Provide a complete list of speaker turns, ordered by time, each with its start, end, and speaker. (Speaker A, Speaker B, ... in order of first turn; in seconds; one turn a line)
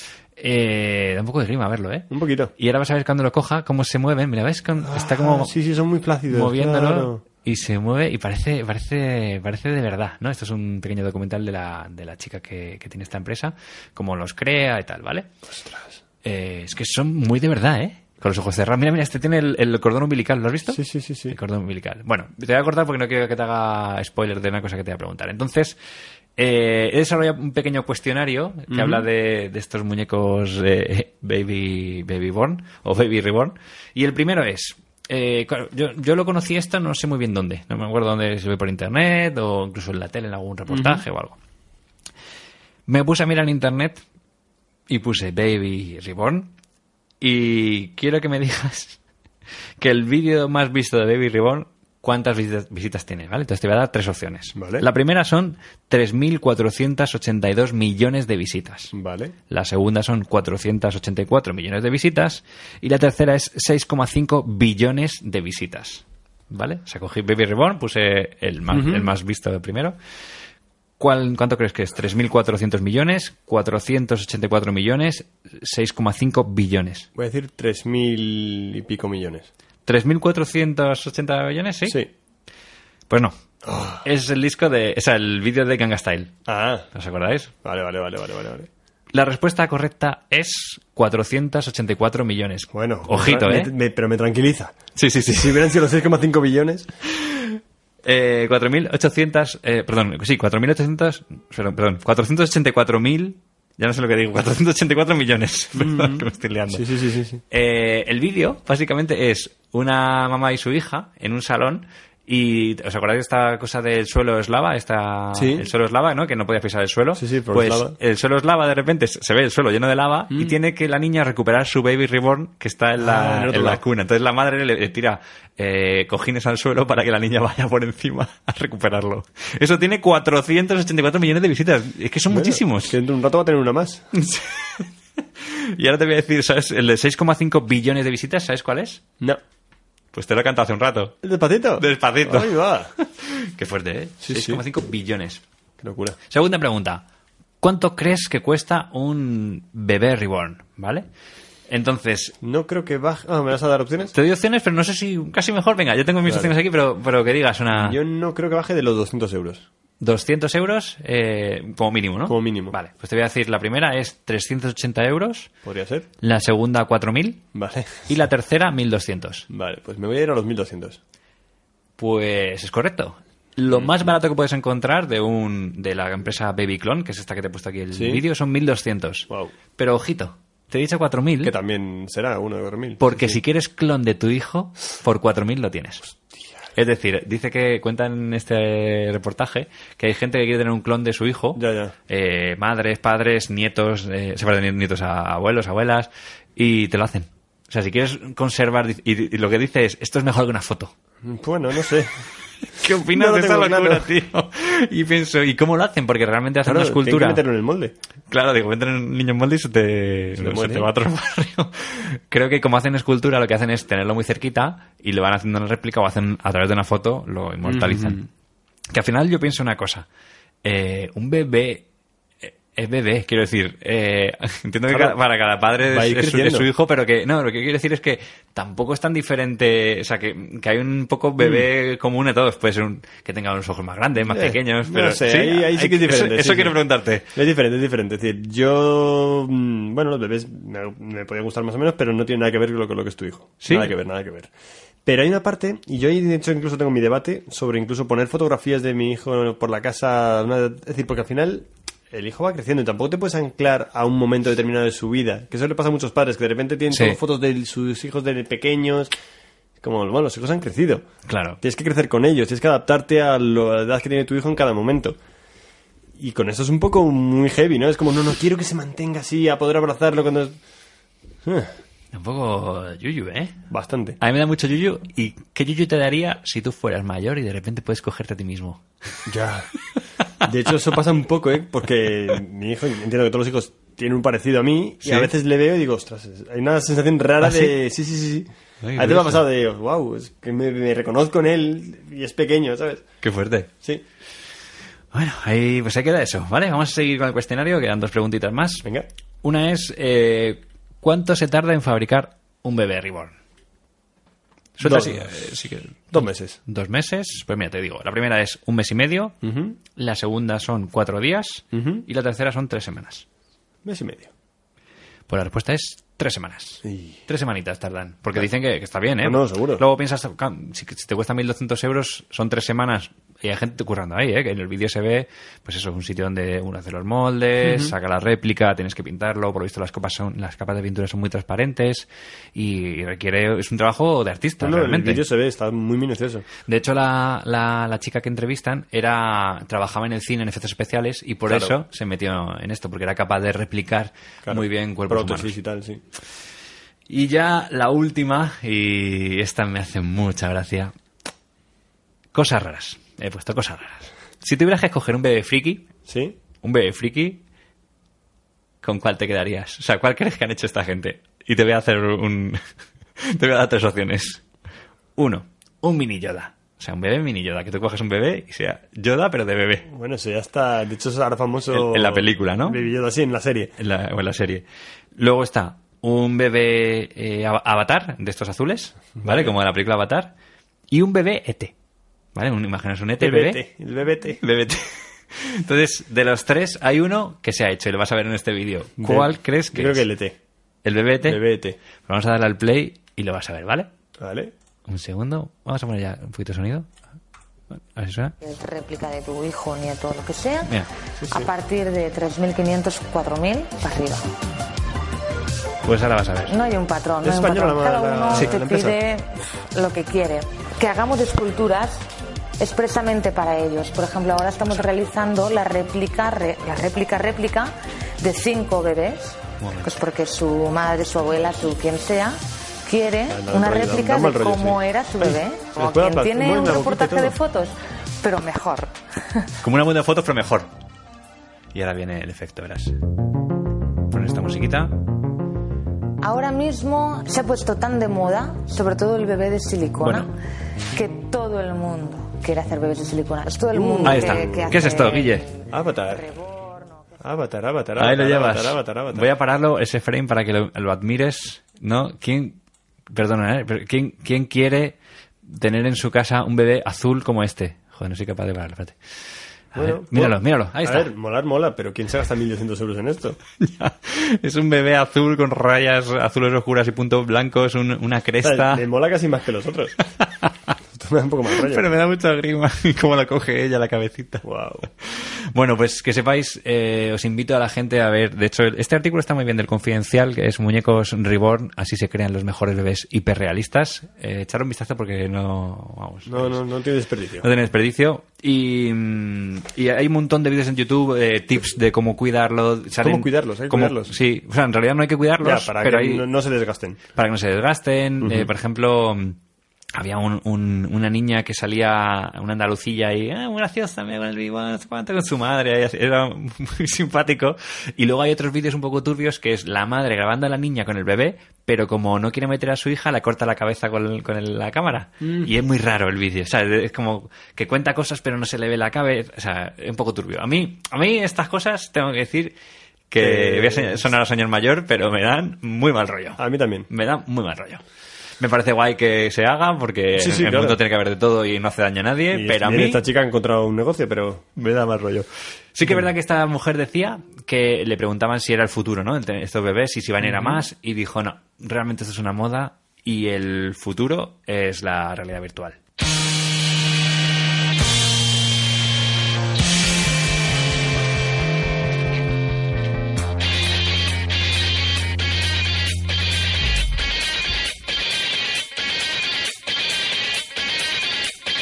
Speaker A: 0.4-5.5
Speaker B: 2.1-2.5
Speaker B: 4.8-7.2
Speaker A: 6.3-15.3
Speaker B: 15.5-16.0
Speaker A: 16.2-25.8
Speaker B: 20.7-21.4
Speaker A: 26.4-41.4
Speaker B: 28.7-29.0
Speaker B: 40.7-41.0
Speaker A: 42.9-44.0
Speaker A: 44.9-46.5
Speaker A: 47.2-49.0
Speaker A: 49.8-58.9
Speaker B: 54.5-54.9
Speaker B: 58.9-59.3
Speaker A: 59.5-70.0
Speaker B: 68.7-69.1
Speaker A: 71.0-77.1
Speaker B: 77.1-79.5
Speaker A: 79.8-82.0
Speaker A: 83.1-83.3
Speaker B: 83.6-84.0
Speaker A: 84.0-86.3
Speaker B: 86.5-86.9
Speaker A: 86.9-87.5
Speaker B: 87.6-88.7
Speaker A: 89.1-93.7
Speaker B: 92.7-94.8
Speaker A: 95.0-95.7
Speaker B: 95.3-96.9
Speaker A: 97.2-106.8
Speaker B: 105.8-107.4
Speaker A: 107.5-132.9
Speaker B: 115.3-115.7
Speaker B: 117.2-117.9
Speaker B: 123.0-123.8
Speaker B: 132.3-134.1
Speaker A: 134.1-139.0
Speaker A: 140.1-141.2
Speaker B: 141.2-142.9
Speaker A: 141.8-145.4
Speaker B: 144.2-144.6
Speaker B: 145.8-146.2
Speaker A: 146.3-147.0
Speaker A: 147.6-151.1
Speaker A: 151.7-152.3
Speaker B: 152.4-154.1
Speaker A: 154.1-158.0
Speaker B: 156.2-156.5
Speaker B: 157.7-159.7
Speaker A: 160.0-165.5
Speaker B: 162.2-162.8
Speaker B: 165.6-166.1
Speaker A: 166.2-167.4
Speaker B: 167.5-168.1
Speaker A: 168.1-169.5
Speaker B: 169.5-171.0
Speaker A: 172.0-181.5
Speaker B: 177.9-178.2
Speaker B: 181.4-183.4
Speaker A: 183.0-186.1
Speaker A: 186.8-200.9
Speaker B: 191.5-191.9
Speaker B: 201.2-202.2
Speaker A: 202.7-207.4
Speaker B: 203.1-204.1
Speaker B: 206.6-207.9
Speaker A: 208.3-218.2
Speaker B: 210.4-210.9
Speaker B: 217.6-218.2
Speaker A: 218.9-220.1
Speaker A: 220.6-221.8
Speaker A: 222.4-237.2
Speaker B: 224.9-225.2
Speaker B: 225.9-226.7
Speaker B: 231.4-231.7
Speaker B: 234.3-236.8
Speaker B: 237.3-244.5
Speaker A: 243.6-243.9
Speaker B: 245.0-259.1
Speaker A: 256.9-257.2
Speaker B: 259.8-261.1
Speaker A: 261.3-261.6
Speaker B: 261.6-265.2
Speaker B: 266.2-270.6
Speaker B: 271.4-271.7
Speaker A: 272.1-273.6
Speaker B: 273.7-274.2
Speaker A: 274.2-278.8
Speaker B: 279.3-279.7
Speaker B: 280.4-293.1
Speaker A: 285.0-285.3
Speaker A: 287.4-287.8
Speaker A: 288.8-289.4
Speaker A: 293.2-293.7
Speaker A: 295.1-298.8
Speaker A: 299.4-303.3
Speaker A: 304.8-309.3
Speaker B: 304.8-305.3
Speaker B: 306.1-306.6
Speaker B: 309.4-309.8
Speaker A: 309.9-313.2
Speaker B: 311.7-312.1
Speaker B: 313.8-314.3
Speaker A: 315.3-335.2
Speaker B: 316.8-317.2
Speaker B: 319.2-319.8
Speaker B: 327.6-327.9
Speaker B: 334.6-336.5
Speaker A: 336.6-345.5
Speaker B: 341.5-341.8
Speaker B: 344.4-346.0
Speaker A: 347.1-350.9
Speaker A: 352.3-355.9
Speaker B: 356.1-356.4
Speaker A: 356.6-357.4
Speaker A: 358.8-362.6
Speaker A: 363.2-364.4
Speaker A: 365.1-369.9
Speaker B: 369.9-373.7
Speaker A: 371.7-372.8
Speaker A: 373.8-374.6
Speaker A: 375.1-380.3
Speaker B: 379.2-379.6
Speaker A: 380.9-381.7
Speaker A: 382.3-383.6
Speaker B: 383.2-384.4
Speaker A: 384.4-390.1
Speaker B: 389.0-390.4
Speaker A: 390.8-391.4
Speaker B: 391.2-391.8
Speaker A: 392.1-393.9
Speaker B: 394.2-394.5
Speaker A: 394.9-396.9
Speaker A: 397.7-398.3
Speaker C: 398.4-400.7
Speaker B: 401.2-401.5
Speaker C: 401.3-404.3
Speaker A: 405.8-406.5
Speaker C: 406.5-412.0
Speaker B: 407.2-409.0
Speaker C: 412.6-429.5
Speaker A: 419.6-419.9
Speaker B: 423.3-427.4
Speaker A: 429.6-430.7
Speaker A: 431.7-432.9
Speaker A: 434.1-434.9
Speaker C: 436.2-440.3
Speaker A: 440.0-440.3
Speaker C: 440.9-447.1
Speaker B: 443.7-444.9
Speaker A: 444.0-445.4
Speaker B: 445.7-446.2
Speaker B: 447.2-449.3
Speaker A: 448.0-458.9
Speaker A: 459.7-461.1
Speaker B: 459.7-463.4
Speaker A: 463.6-468.8
Speaker B: 468.4-470.0
Speaker A: 470.2-470.5
Speaker B: 470.9-471.8
Speaker A: 471.6-474.4
Speaker B: 474.4-474.9
Speaker A: 475.0-486.6
Speaker B: 486.3-487.5
Speaker A: 487.4-496.2
Speaker B: 493.0-494.1
Speaker B: 495.4-497.0
Speaker A: 497.1-499.4
Speaker B: 498.2-498.5
Speaker A: 499.9-522.5
Speaker B: 515.2-515.5
Speaker A: 523.1-527.8
Speaker B: 523.2-524.1
Speaker B: 526.4-526.9
Speaker A: 528.4-533.0
Speaker B: 530.1-530.8
Speaker B: 532.3-534.5
Speaker A: 534.6-545.8
Speaker B: 540.2-540.6